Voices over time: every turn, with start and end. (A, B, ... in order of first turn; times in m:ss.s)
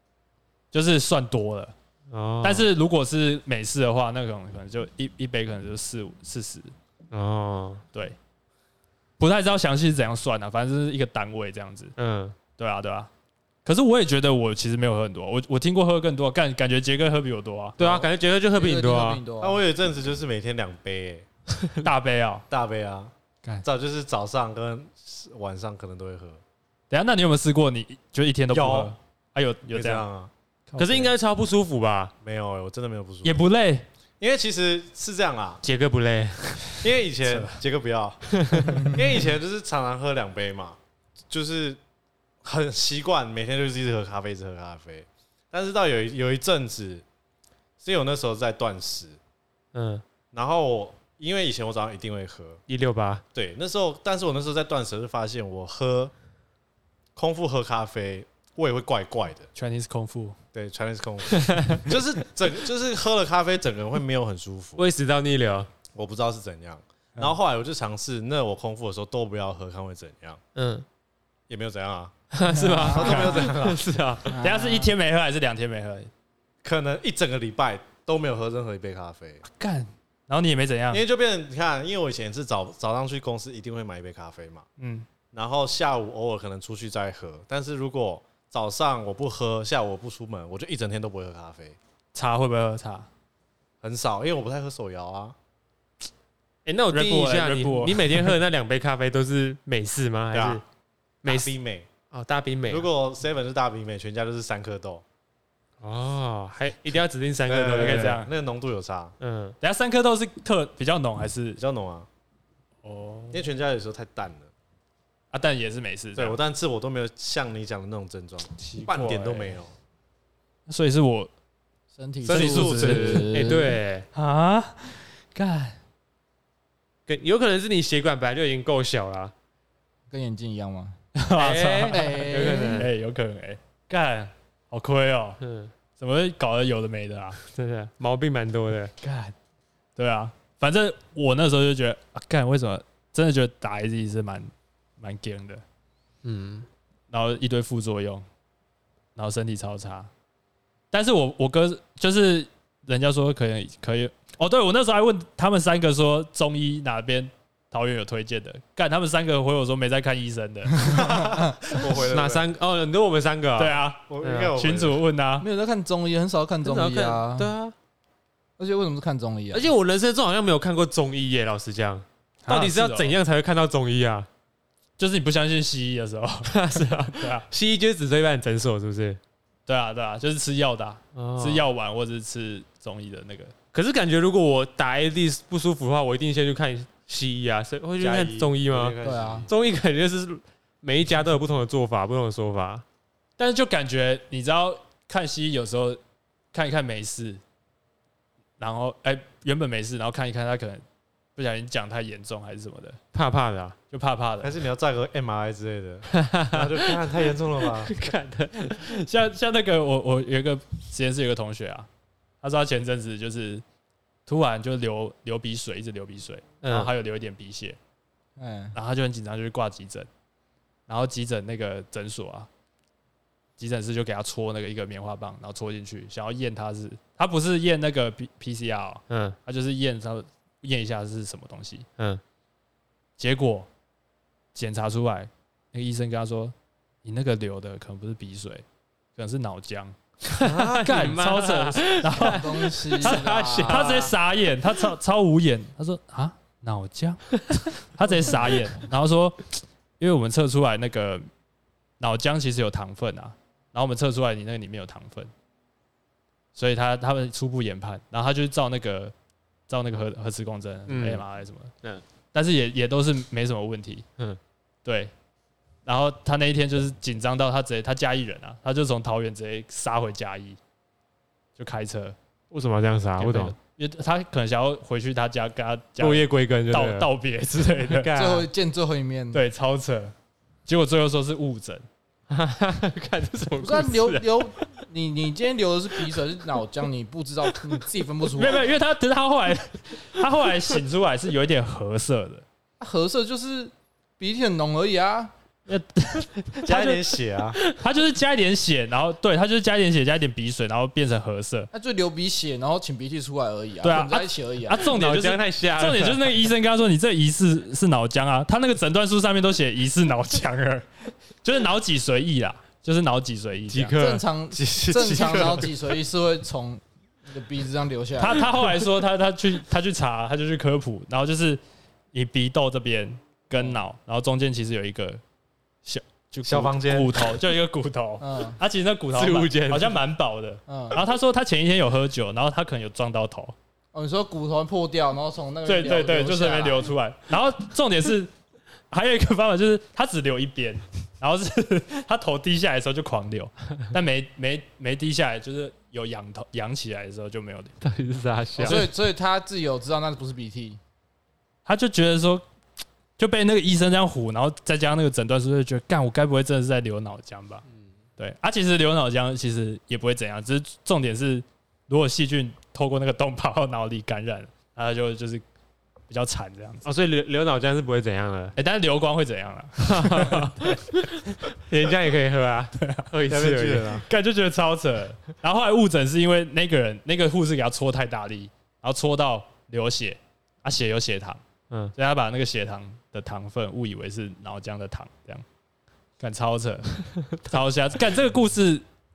0:00.7-0:01.7 A
0:02.1-0:02.7 B
0:02.4-0:06.7 A
0:07.1-0:07.8 B
0:09.2-0:11.9 A
0:12.0-0:12.4 B
0:12.6-0:13.1 A
0:13.6-0:17.8 A
0:17.8-0:19.2 B
0:17.8-0:19.6 C
0:19.4-0:21.2 D
0:21.8-0:22.4 A
0:22.5-0:23.1 D
0:23.6-0:26.4 D
0:26.9-0:30.0 A
0:28.5-0:28.9 D
0:29.7-0:30.3 D
0:30.7-0:31.1 A
0:30.8-0:32.1 B
0:32.2-0:33.4 D
0:33.2-0:33.8 A
0:34.2-0:35.6 D
0:35.6-0:36.8 B
0:36.8-0:40.8 D
0:37.3-0:37.6 A
0:38.3-0:38.9 B
0:41.3-0:41.8 D
0:42.4-0:47.0 D
0:47.8-0:49.2 D
0:49.7-0:50.0 B
0:50.3-0:52.6 D
0:52.7-0:53.2 B
0:53.3-0:56.1 D
0:57.2-0:59.5 D
0:59.5-1:00.4 A
1:00.5-1:04.8 D
1:01.3-1:01.8 B
1:04.8-1:05.7 B
1:05.9-1:10.4 D
1:10.5-1:10.8 B
1:11.5-1:12.1 D
1:12.3-1:14.4 B
1:12.5-1:13.5 C
1:12.8-1:13.8 D
1:14.3-1:14.9 C
1:14.4-1:16.1 A
1:16.6-1:19.4 D
1:19.4-1:21.0 A
1:20.9-1:24.6 D
1:24.8-1:25.0 A
1:25.3-1:31.8 D
1:32.1-1:33.1 A
1:33.8-1:35.3 D
1:36.6-1:40.6 B
1:36.9-1:38.3 A
1:40.3-1:40.6 D
1:41.2-1:41.5 B
1:41.2-1:41.9 D
1:42.1-1:42.9 B
1:42.7-1:45.0 D
1:45.8-1:48.2 B
1:47.5-1:49.1 D
1:47.7-1:48.3 A
1:49.2-1:49.6 B
1:49.6-1:51.6 A
1:51.6-1:52.1 D
1:52.8-1:53.4 A
1:53.3-1:54.5 D
1:55.3-1:56.4 A
1:56.2-1:59.7 D
1:58.6-1:59.5 A
2:00.7-2:01.3 A
2:01.9-2:03.8 C
2:02.3-2:03.3 D
2:02.3-2:04.0 B
2:02.3-2:03.3 A
2:04.1-2:05.8 A
2:07.1-2:09.3 B
2:10.1-2:11.0 C
2:11.1-2:15.4 A
2:11.4-2:12.9 B
2:11.9-2:12.8 C
2:15.4-2:15.7 B
2:16.0-2:17.4 A
2:17.4-2:18.9 B
2:19.0-2:19.3 A
2:20.0-2:25.6 A
2:26.2-2:26.7 B
2:27.1-2:28.2 A
2:29.2-2:30.1 A
2:30.9-2:41.0 A
2:40.8-2:42.5 D
2:41.9-2:44.5 B
2:43.6-2:45.5 A
2:44.1-2:45.0 D
2:45.4-2:47.5 C
2:46.6-2:47.7 B
2:48.6-2:49.7 C
2:49.5-2:54.3 B
2:52.4-2:53.2 A
2:55.0-2:57.5 A
2:56.5-2:59.2 B
2:59.7-3:03.5 A
3:01.1-3:01.7 B
3:03.7-3:09.0 B
3:08.0-3:09.5 D
3:09.0-3:09.5 C
3:09.5-3:12.8 B
3:13.4-3:16.0 A
3:16.5-3:17.4 A
3:18.6-3:20.8 A
3:21.4-3:23.0 A
3:23.1-3:23.8 B
3:23.9-3:24.5 A
3:24.4-3:27.9 D
3:26.1-3:27.1 B
3:27.6-3:28.9 B
3:28.8-3:31.9 A
3:32.4-3:33.6 A
3:34.2-3:37.8 A
3:36.6-3:36.9 B
3:38.4-3:38.8 C
3:38.7-3:40.1 A
3:40.9-3:42.5 A
3:43.6-3:51.9 A
3:49.1-3:49.4 B
3:53.2-3:53.7 A
3:54.5-3:58.6 A
3:59.2-4:11.3 A
4:00.4-4:04.1 B
4:02.1-4:04.1 C
4:08.1-4:08.5 C
4:12.0-4:15.3 A
4:16.5-4:19.1 A
4:19.7-4:21.7 A
4:20.9-4:21.2 B
4:22.3-4:24.0 A
4:24.8-4:25.1 A
4:25.8-4:30.6 A
4:31.6-4:32.2 A
4:32.5-4:33.5 B
4:33.2-4:38.1 A
4:36.0-4:37.1 B
4:37.6-4:38.5 B
4:38.1-4:39.4 C
4:39.3-4:40.1 A
4:40.6-4:41.8 A
4:42.3-4:44.7 B
4:43.6-4:48.7 C
4:48.3-4:52.4 A
4:52.8-4:55.3 C
4:55.7-4:57.0 A
4:56.6-4:57.6 D
4:57.7-5:01.7 A
5:01.7-5:04.9 C
5:03.8-5:10.9 A
5:04.8-5:06.3 B
5:11.4-5:13.9 A
5:13.7-5:14.2 B
5:14.0-5:18.5 C
5:14.5-5:15.8 D
5:18.2-5:21.6 A
5:22.1-5:25.2 A
5:25.8-5:33.5 A
5:26.4-5:27.2 D
5:28.2-5:28.6 C
5:29.1-5:30.0 B
5:30.7-5:31.0 C
5:33.9-5:36.9 C
5:35.6-5:38.3 A
5:38.9-5:47.8 A
5:47.8-5:48.9 B
5:48.6-5:48.9 A
5:48.6-5:50.8 C
5:51.6-5:52.4 A
5:53.2-5:57.6 A
5:58.2-6:05.4 A
6:06.1-6:06.9 A
6:06.8-6:08.5 B
6:08.6-6:10.8 A
6:09.8-6:14.0 B
6:12.8-6:13.1 A
6:13.3-6:14.0 D
6:14.1-6:21.4 A
6:22.0-6:25.4 A
6:26.2-6:28.8 A